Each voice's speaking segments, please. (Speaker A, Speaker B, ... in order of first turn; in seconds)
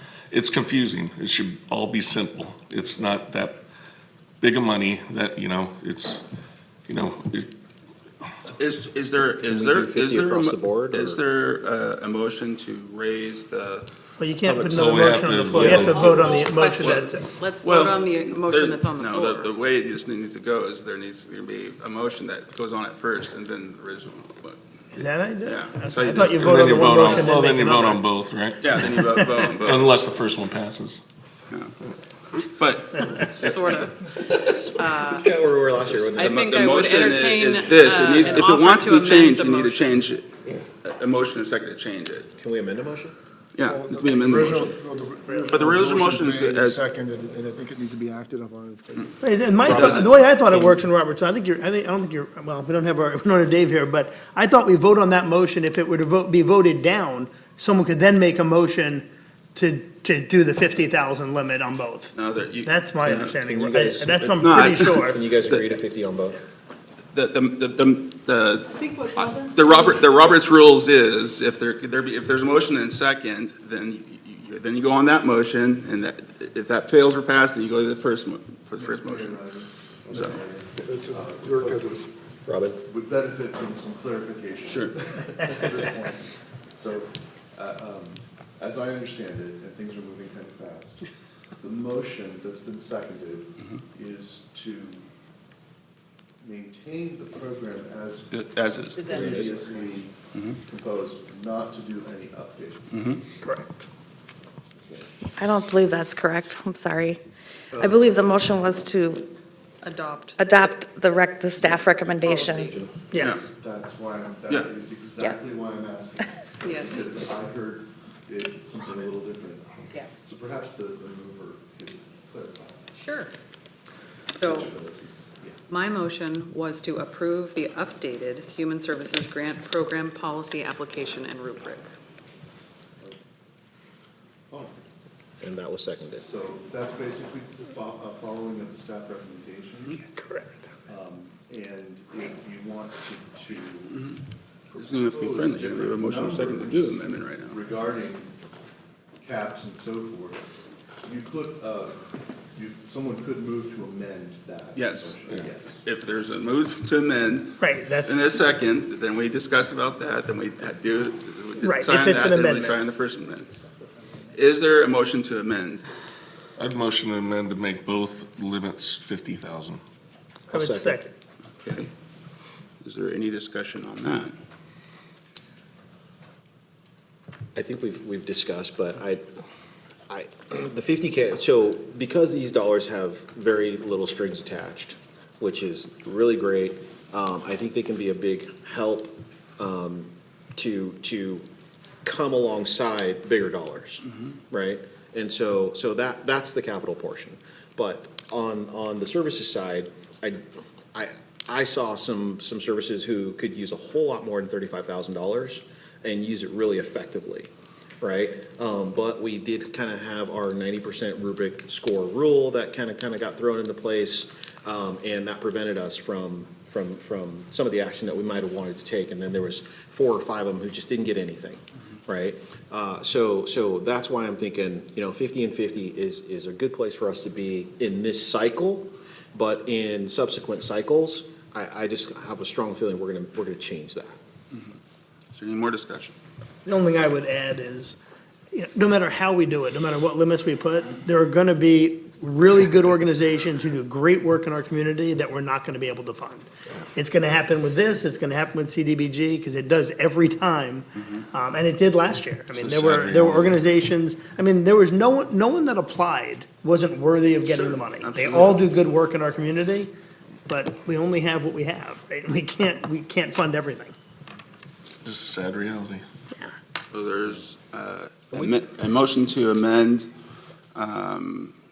Speaker A: 0.3-3.6, 4.4-6.2, 6.9-7.5, 14.4-16.1, 26.3-29.0, 29.6-31.0, 166.6-169.8, 265.0-266.0
Speaker B: 8.6-13.9, 16.8-17.1, 17.6-24.6, 25.4-26.6, 28.6-29.9, 32.4-33.6, 35.8-40.3, 40.8-42.3, 43.5-44.8, 45.5-46.8, 49.6-50.7, 62.1-63.3, 64.4-65.8, 67.1-79.4, 80.1-80.4, 84.6-85.0, 98.3-99.2, 102.9-103.2, 143.9-144.2, 144.8-147.6, 154.7-163.5, 164.3-165.8, 171.6-171.9, 172.8-174.3, 235.3-236.1, 252.9-253.5, 257.4-258.6, 266.9-270.1, 270.7-271.5
Speaker C: 9.4-11.2, 15.6-16.0, 35.0-36.5, 42.4-43.1, 63.2-66.4, 82.5-82.8, 99.1-99.8, 107.7-108.2, 112.3-112.9, 135.4-136.3, 170.5-171.0, 177.5-179.3, 180.1-191.4, 192.0-200.4, 200.9-234.2
Speaker D: 14.2-17.3, 24.9-28.0, 29.0-29.2, 45.3-45.6, 49.2-65.2, 103.4-103.8, 113.1-113.4, 139.9-140.6, 157.6-158.3, 161.6-162.8, 170.5-171.1, 236.6-238.0, 238.5-259.9, 260.5-263.9
Speaker E: 15.8-19.5, 26.9-27.3, 33.1-35.3, 36.2-39.8, 109.8-110.7, 116.6-117.0, 123.0-123.3, 124.3-124.7, 125.7-131.9
Speaker F: 43.7-44.6, 45.4-49.0, 80.8-81.6
Speaker G: 78.8-82.1, 82.8-91.0, 91.6-95.0, 96.4-103.0, 104.7-105.1, 113.3-122.9, 124.4-125.6, 136.0-140.0, 140.9-144.0, 144.7-148.3, 149.2-150.4, 151.0-155.8
Speaker H: 105.3-107.2, 107.8-109.3, 110.4-112.7